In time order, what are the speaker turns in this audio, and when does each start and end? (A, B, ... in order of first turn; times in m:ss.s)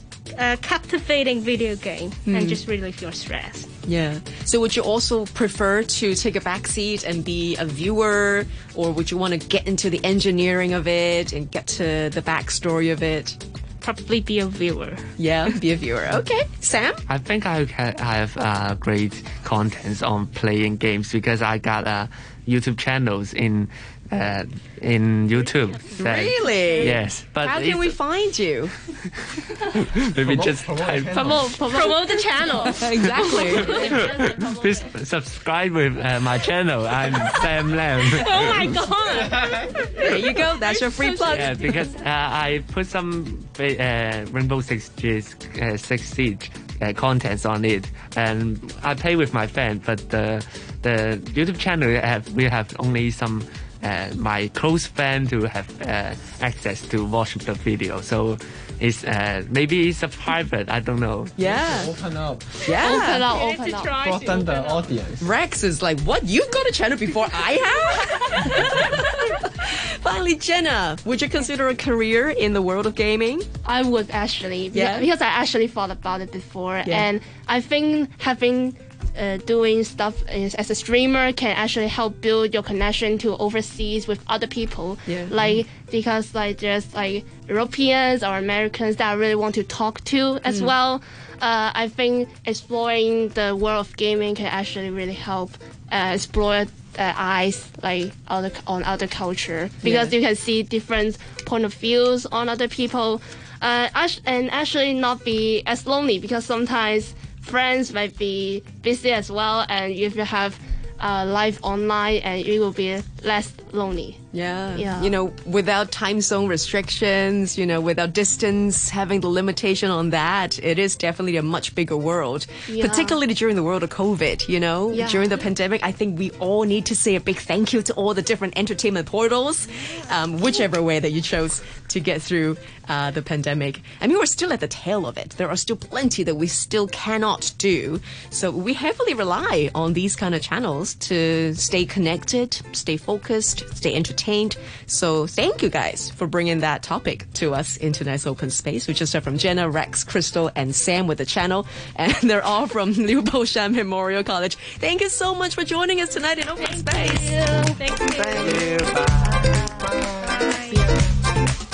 0:00.3-0:03.7 A
0:02.2-0:02.6 B
0:03.8-0:13.4 B
0:13.8-0:15.5 A
0:15.2-0:17.0 B
0:17.1-0:28.0 C
0:25.8-0:26.9 A
0:25.9-0:28.7 B
0:29.2-0:31.4 C
0:30.2-0:31.7 D
0:31.1-0:34.5 E
0:31.7-0:34.9 A
0:32.6-0:33.7 B
0:33.1-0:38.8 C
0:38.0-0:41.9 A
0:40.0-0:41.5 B
0:41.3-1:01.4 C
1:01.4-1:01.9 B
1:01.4-1:02.6 D
1:02.6-1:03.3 B
1:02.8-1:04.0 E
1:03.2-1:04.9 A
1:04.0-1:05.3 D
1:05.2-1:13.5 B
1:13.6-1:54.2 E
1:14.7-1:15.1 B
1:25.1-1:25.6 B
1:30.5-1:30.7 B
1:39.8-1:40.1 B
1:54.3-2:37.3 B
1:54.8-1:55.2 E
2:02.7-2:03.2 E
2:04.9-2:05.4 E
2:36.6-2:38.7 A
2:38.2-2:39.9 C
2:38.2-2:38.5 B
2:39.2-2:41.0 E
2:40.2-2:40.9 A